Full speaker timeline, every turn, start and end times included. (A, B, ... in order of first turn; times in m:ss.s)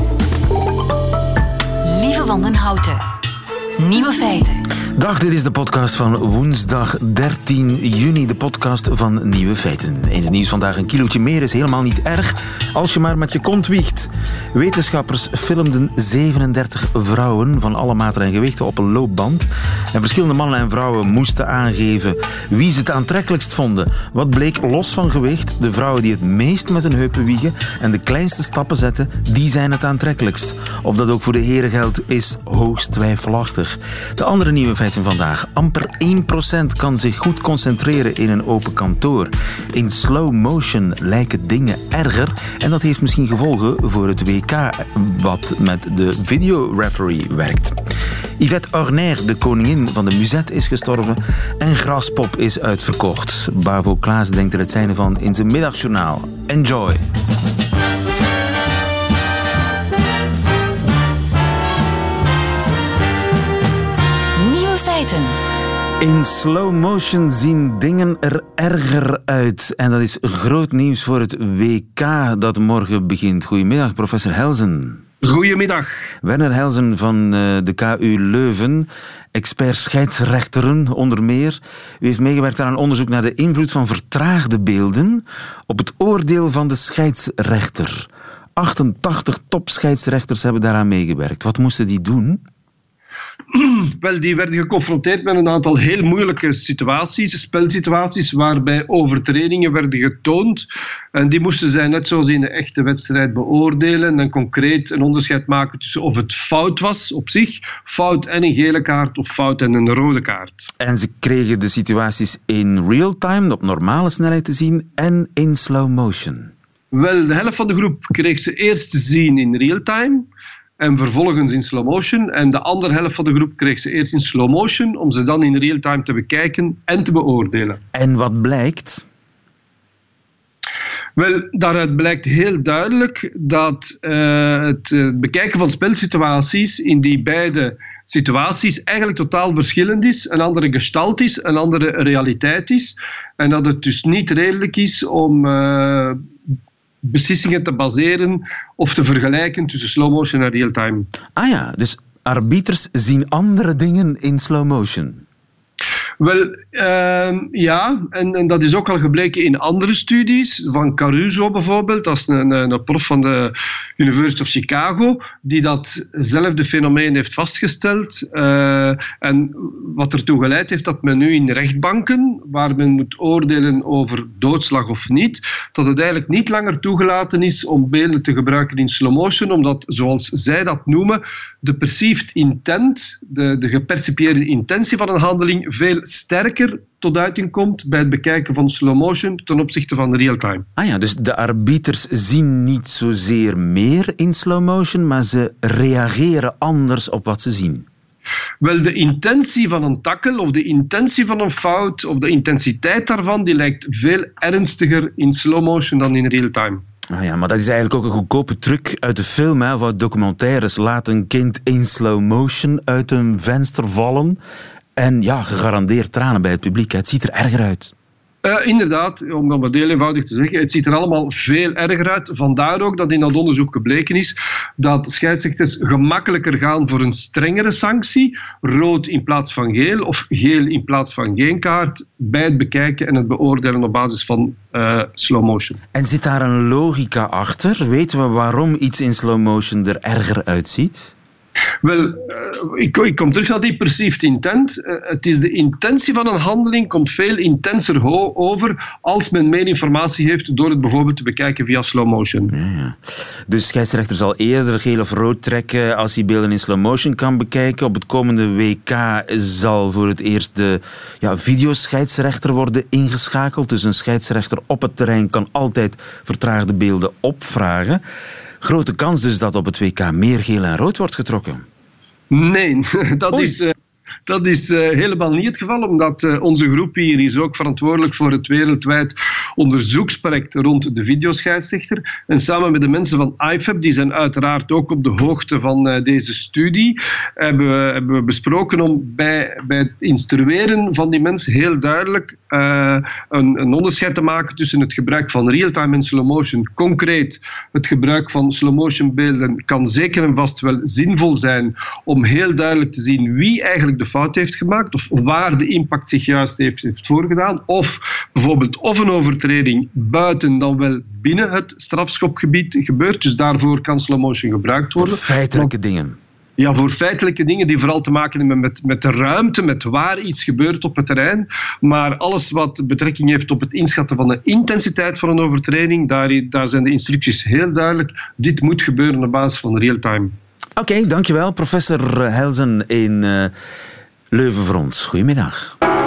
0:01.8-0:03.0 A
0:03.8-0:04.6 A
0:05.0-0:47.8 B
0:48.4-0:57.0 B
1:04.3-1:05.4 A
1:06.0-1:15.0 B
1:15.2-1:16.0 C
1:16.2-1:32.4 B
1:33.5-1:50.7 C
1:50.8-1:56.5 B
1:56.9-2:00.2 C
2:00.8-2:07.8 C
2:07.9-2:09.0 B
2:11.2-2:26.2 C
2:27.0-2:31.1 C
2:31.4-2:35.2 B
2:36.2-3:10.6 C
3:10.8-3:17.8 B
3:18.6-3:26.8 C
3:27.1-3:34.4 B
3:35.0-3:37.9 B
3:38.4-3:55.8 C
3:55.9-4:01.1 B
4:01.8-4:12.5 C
4:12.5-4:28.0 B
4:28.6-4:31.6 B
4:32.3-4:33.7 C
4:34.3-5:15.2 C
5:15.0-5:16.2 B
5:16.6-5:30.3 C
5:30.8-5:33.5 B
5:34.3-5:35.8 B